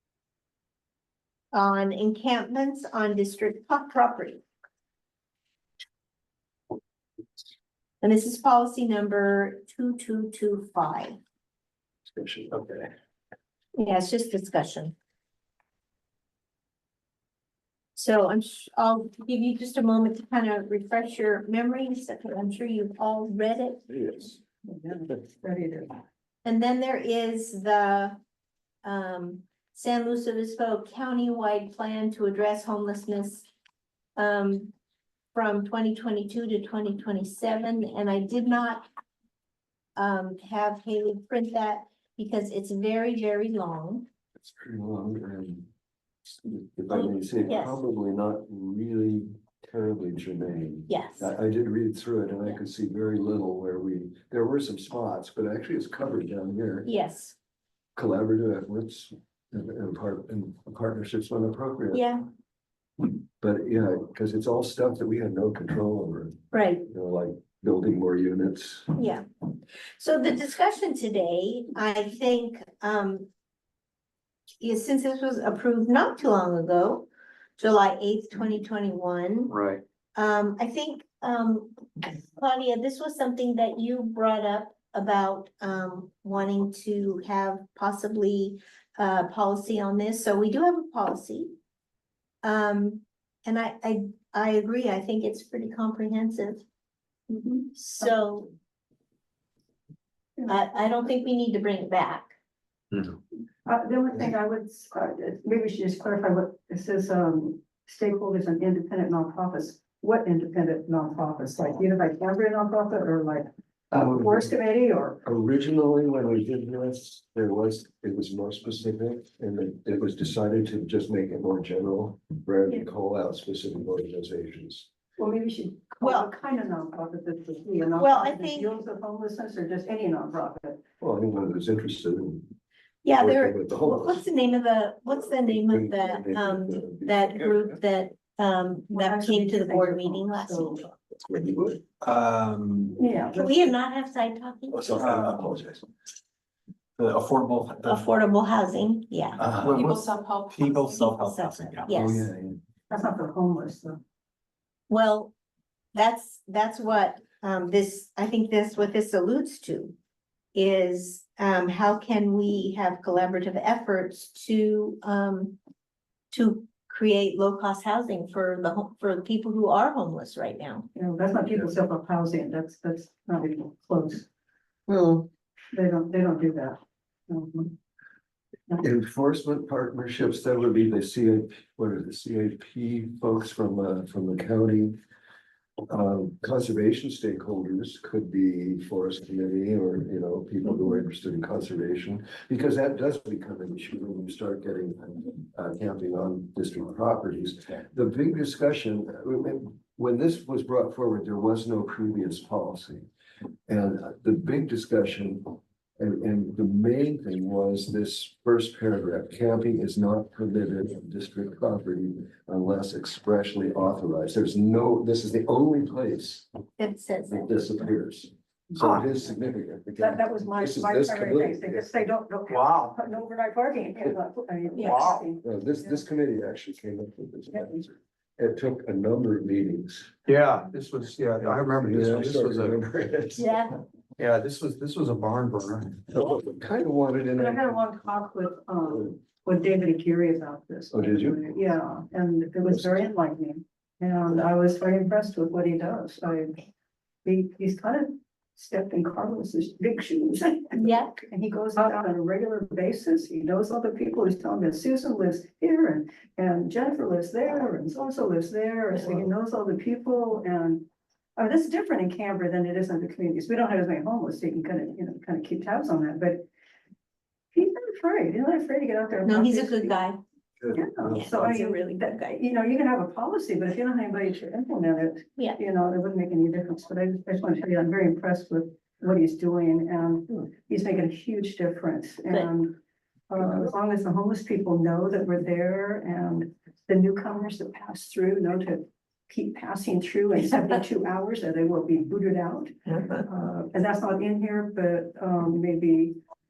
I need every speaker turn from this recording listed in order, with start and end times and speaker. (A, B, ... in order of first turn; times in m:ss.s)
0:01.5-0:04.4 A
0:08.0-0:11.2 A
0:12.1-0:12.9 B
0:13.8-0:15.0 A
0:18.0-0:23.9 A
0:23.9-0:24.4 B
0:24.7-0:26.0 C
0:26.4-0:28.2 A
0:28.8-0:33.5 A
0:34.2-0:34.7 A
0:35.3-0:38.9 A
0:40.0-0:44.1 A
0:44.4-0:45.7 B
0:46.3-0:56.9 B
0:46.9-0:47.8 A
0:50.9-0:51.3 A
0:56.8-0:57.4 A
0:58.0-1:02.0 B
1:01.9-1:02.2 A
1:03.4-1:08.9 B
1:06.5-1:06.8 A
1:09.0-1:09.2 A
1:10.0-1:13.3 A
1:14.6-1:17.1 A
1:17.6-1:19.6 A
1:19.5-1:19.8 D
1:20.2-1:31.5 A
1:32.4-1:36.6 A
1:37.3-1:38.5 A
1:40.5-1:42.4 A
1:43.7-1:55.2 C
1:53.9-1:54.5 B
1:55.2-2:04.9 B
2:05.2-2:10.8 C
2:06.0-2:06.3 A
2:08.0-2:08.8 A
2:11.0-2:12.5 B
2:13.0-2:20.9 A
2:13.2-2:14.2 B
2:15.3-2:17.8 B
2:18.9-2:20.8 C
2:21.1-2:21.8 B
2:22.0-2:23.0 D
2:22.9-2:23.7 C
2:23.4-2:25.0 A
2:24.7-2:25.8 B
2:24.9-2:25.6 D
2:27.0-2:28.0 D
2:27.8-2:32.3 A
2:29.4-2:31.9 D
2:31.9-2:32.6 B
2:32.9-2:34.0 C
2:34.9-2:35.3 A
2:35.9-2:39.9 A
2:40.6-2:45.6 A
2:46.3-2:50.9 A
2:51.0-2:54.2 C
2:54.9-2:55.2 A
2:55.7-2:57.8 C
2:58.8-3:05.0 B
3:05.9-3:23.1 B
3:23.7-3:36.5 B
3:36.8-3:37.5 A
3:37.3-3:41.9 B
3:38.8-3:39.0 D
3:40.0-3:46.0 C
3:42.5-3:43.0 D
3:44.8-3:45.1 A
3:44.8-3:45.2 D
3:45.4-3:50.1 B
3:50.3-3:52.8 D
3:51.4-3:53.6 B
3:53.4-3:53.8 A
3:54.2-3:56.1 D
3:56.1-3:57.8 B
3:57.4-4:06.6 C
4:00.9-4:01.4 B
4:07.2-4:26.4 C
4:10.8-4:11.2 A
4:27.5-4:29.9 C
4:29.2-4:30.2 A
4:30.6-4:31.4 B
4:30.7-4:42.8 C
4:31.1-4:32.4 A
4:43.3-4:56.2 C